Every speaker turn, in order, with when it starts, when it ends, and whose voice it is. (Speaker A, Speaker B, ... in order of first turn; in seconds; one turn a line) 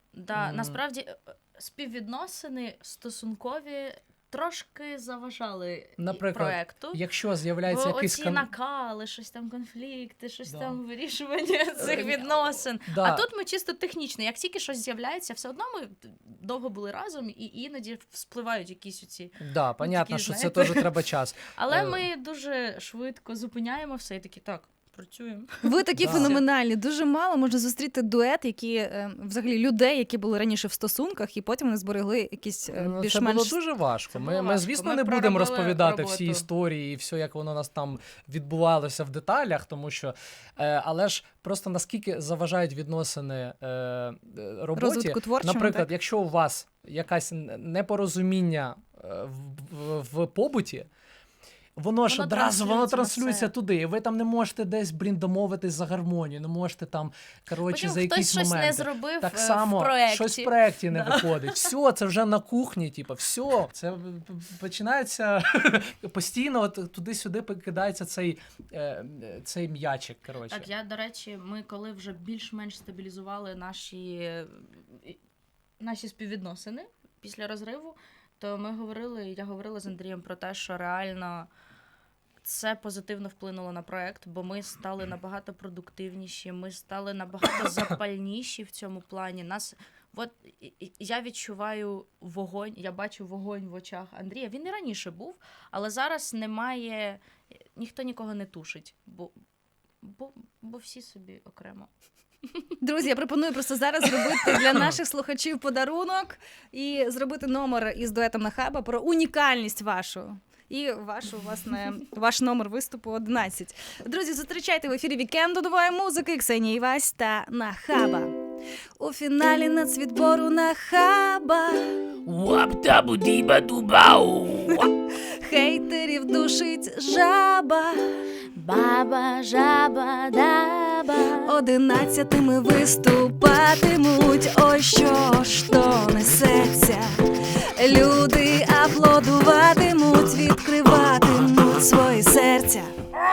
Speaker A: 0.1-7.0
Speaker B: 0.3-0.8
Speaker B: 6.0-8.5
Speaker A: 7.6-20.9
Speaker B: 10.5-10.8
Speaker B: 11.8-13.2
Speaker B: 19.4-22.0
Speaker A: 21.5-26.4
Speaker C: 25.6-33.6
Speaker B: 26.0-26.4
Speaker B: 32.7-50.9
Speaker A: 34.1-36.5
Speaker C: 44.7-45.9
Speaker B: 51.8-70.7
Speaker A: 52.1-53.5
Speaker A: 57.7-61.7
Speaker A: 70.5-75.2
Speaker A: 75.8-81.5
Speaker A: 82.4-97.2
Speaker A: 97.7-99.3
Speaker A: 100.0-101.9
Speaker C: 102.8-118.3
Speaker C: 119.0-122.1
Speaker B: 122.2-124.8
Speaker C: 124.7-128.1
Speaker A: 128.5-131.5
Speaker C: 131.4-142.9